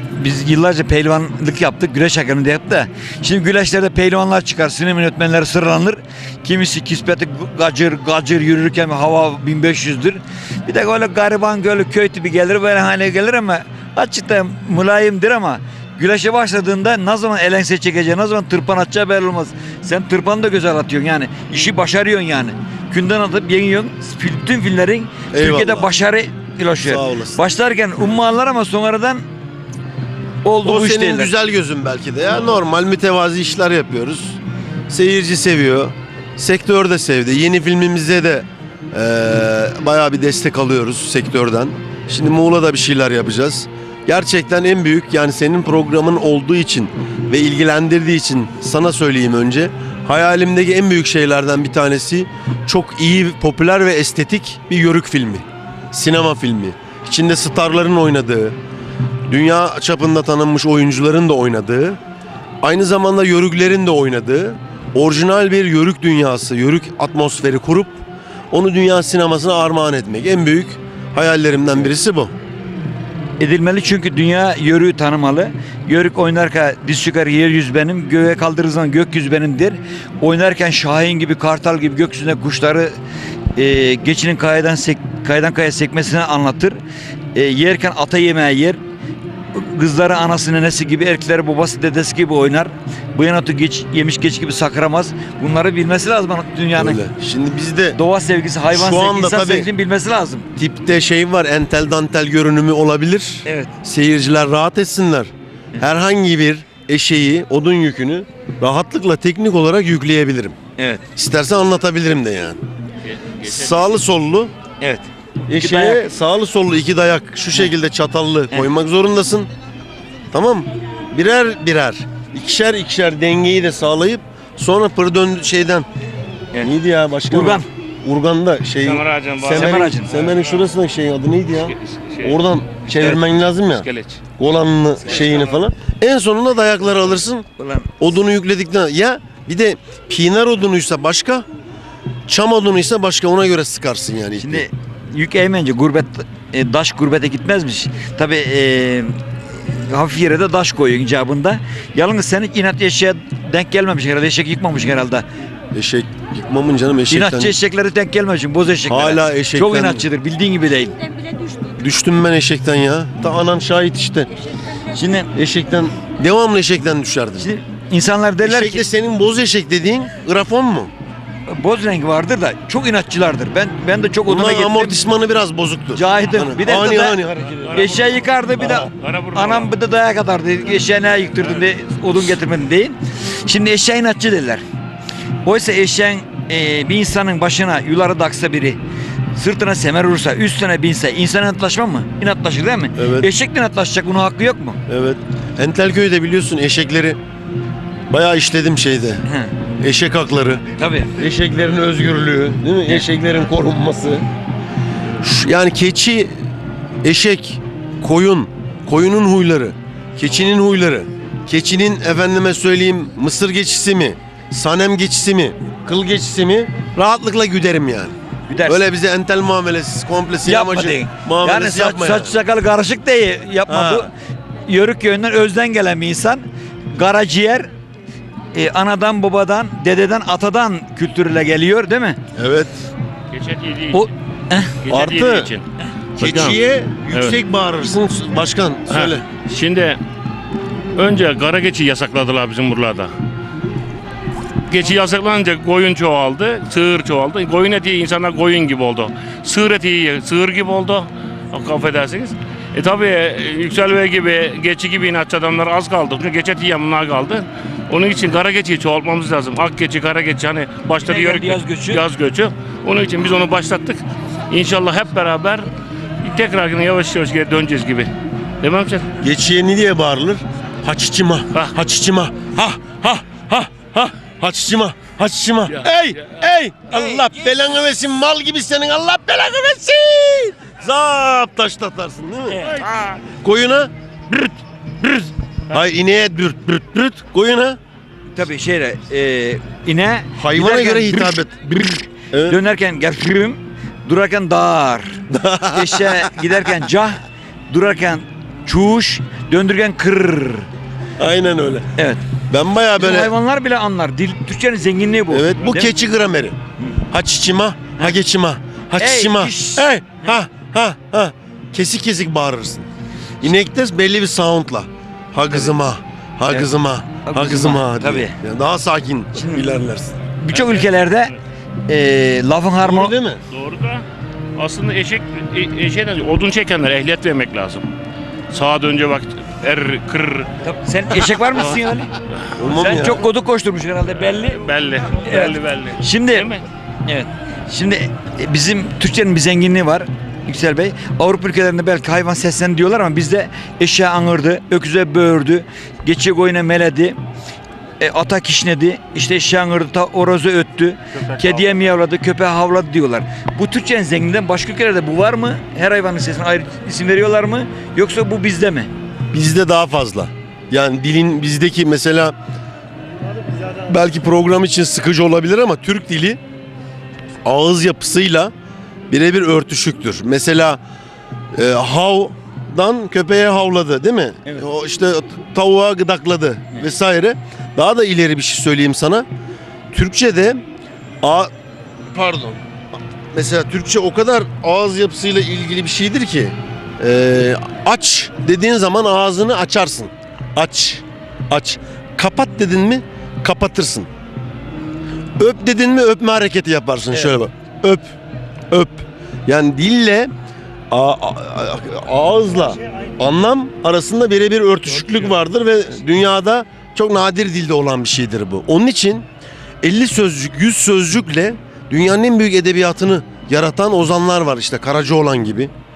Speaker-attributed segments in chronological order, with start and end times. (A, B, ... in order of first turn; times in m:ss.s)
0:00.2-0:29.2 A
0:25.3-0:25.9 B
0:26.8-0:27.4 B
0:30.4-0:31.3 A
0:30.6-0:58.6 B
0:59.3-1:02.0 B
1:02.6-1:08.0 B
1:08.5-1:12.3 B
1:13.4-1:23.0 A
1:23.6-1:26.8 A
1:27.3-1:28.8 A
1:29.5-1:37.0 A
1:36.8-1:38.0 B
1:38.0-1:40.5 A
1:38.7-1:39.7 B
1:40.6-1:50.6 B
1:43.4-1:43.7 A
1:50.8-1:51.0 A
1:51.2-1:52.6 B
1:53.0-1:53.9 C
1:53.4-1:54.5 B
1:54.8-1:56.0 A
1:55.5-1:59.5 B
2:00.3-2:05.9 B
2:06.6-2:17.4 B
2:07.3-2:07.6 A
2:08.8-2:10.6 C
2:09.5-2:10.1 A
2:11.6-2:12.4 C
2:13.7-2:14.2 C
2:17.6-2:17.9 A
2:18.0-2:21.4 B
2:22.3-2:24.7 B
2:24.4-2:35.2 A
2:35.7-2:37.5 B
2:37.1-2:41.0 A
2:38.9-2:40.1 B
2:41.7-2:44.3 B
2:44.9-2:45.3 A
2:45.3-2:47.5 B
2:47.4-2:48.8 A
2:48.4-2:50.9 B
2:51.5-2:55.0 A
2:54.2-2:58.0 B
2:55.9-2:57.2 A
2:57.6-2:59.7 C
2:57.7-3:04.6 A
2:58.6-2:58.8 B
3:05.4-3:08.8 A
3:09.3-3:14.8 A
3:13.0-3:13.3 B
3:14.9-3:17.2 B
3:18.1-3:19.2 B
3:19.2-3:19.5 A
3:19.8-3:24.2 B
3:20.8-3:21.1 A
3:25.2-3:26.3 B
3:27.0-3:42.4 B
3:38.5-3:38.8 A
3:40.4-3:44.1 A
3:43.7-3:44.1 B
3:44.6-3:47.7 A
3:48.5-3:52.2 A
3:52.4-3:52.7 B
3:53.3-3:54.1 C
3:53.9-3:54.7 A
3:54.8-3:55.7 C
3:54.9-3:55.5 B
3:56.2-3:56.6 C
3:56.2-3:59.2 B
3:57.1-3:57.4 C
3:58.9-4:00.0 C
4:00.9-4:03.1 C
4:04.7-4:25.7 C
4:21.0-4:22.0 A
4:26.2-4:28.1 C
4:28.6-4:29.1 C
4:29.2-4:42.6 B
4:42.5-4:42.8 A
4:42.8-4:43.2 C
4:43.4-4:44.5 B
4:45.0-4:47.8 B
4:48.3-5:00.6 A
4:50.4-4:51.7 B
4:52.3-4:52.6 B
4:55.3-4:56.3 B
5:01.2-5:01.9 B
5:02.0-5:02.2 A
5:02.5-5:03.3 B
5:03.0-5:05.9 A
5:05.3-5:06.6 B
5:07.1-5:12.9 B
5:09.0-5:10.3 A
5:13.4-5:20.2 B
5:17.2-5:18.4 A
5:19.4-5:19.7 A
5:20.4-5:21.3 A
5:20.5-5:20.9 C
5:21.8-5:23.1 A
5:22.8-5:23.4 B
5:23.5-5:24.0 C
5:24.6-5:27.9 C
5:28.5-5:30.5 C
5:30.6-5:32.1 A
5:31.5-5:31.8 C
5:32.6-5:33.2 B
5:32.7-5:34.6 A
5:34.6-5:36.6 C
5:35.2-5:36.5 A
5:37.0-5:47.2 A
5:48.0-5:58.9 A
5:59.3-6:02.3 B
6:03.7-6:06.4 B
6:07.4-6:08.5 B
6:09.1-6:10.8 B
6:11.5-6:19.2 B
6:19.9-6:20.6 B
6:21.2-6:21.5 B
6:22.1-6:22.6 B
6:23.3-6:34.1 B
6:35.4-6:38.1 B
6:37.1-6:37.4 A
6:38.7-6:40.3 B
6:40.9-6:49.2 B
6:49.8-6:55.7 B